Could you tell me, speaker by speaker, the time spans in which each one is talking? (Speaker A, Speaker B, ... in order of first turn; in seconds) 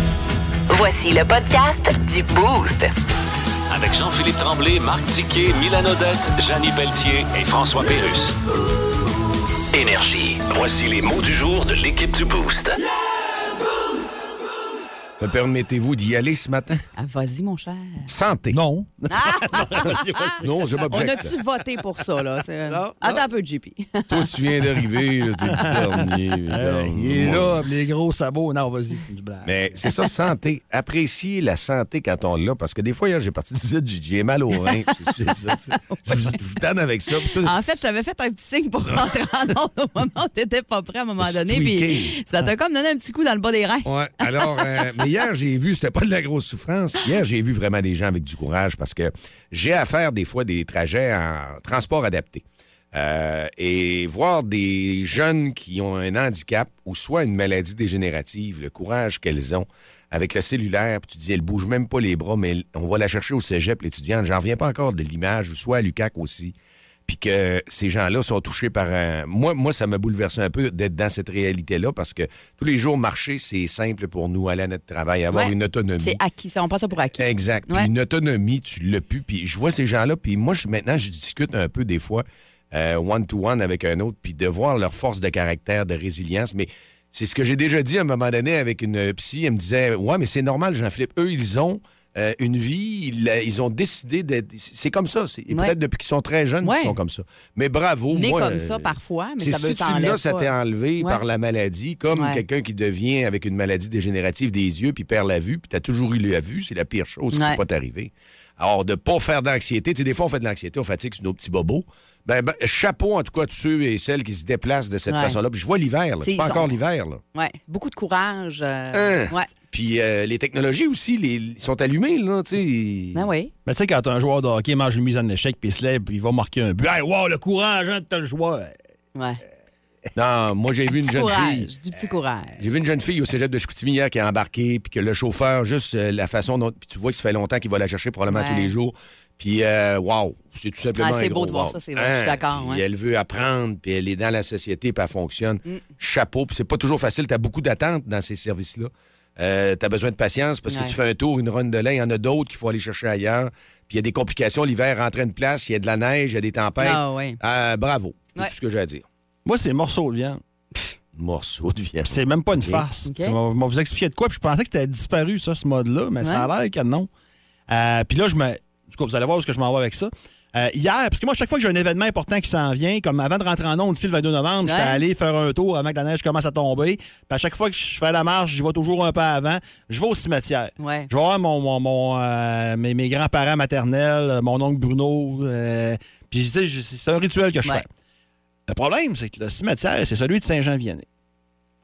Speaker A: 0.7-2.9
Speaker B: 3.7-8.3, 9.7-12.8
Speaker C: 15.2-16.8, 18.1-18.6, 20.4-21.4, 24.1-27.6, 29.4-37.5, 41.2-42.2, 43.9-66.5, 67.1-76.2, 77.1-117.2, 118.9-123.3, 130.1-131.7, 132.6-159.0, 161.1-162.8
Speaker D: 17.0-18.1, 19.1-20.3, 20.9-24.2, 34.7-35.3, 35.9-36.4, 37.4-44.8, 75.3-77.9, 96.6-97.0, 98.1-101.2, 102.1-102.4, 107.3-107.6, 115.1-115.4, 116.2-116.8, 117.3-119.5, 123.1-123.5, 129.1-129.4, 130.9-132.7, 138.3-138.7, 141.0-142.8, 150.7-150.9, 156.8-157.4, 163.0-163.4, 166.2-166.5, 174.6-175.0, 180.8-181.1
Speaker E: 18.5-20.7, 25.4-26.0, 26.5-29.5, 123.7-128.7, 159.4-160.4, 162.1-167.1, 167.7-187.9, 188.7-191.0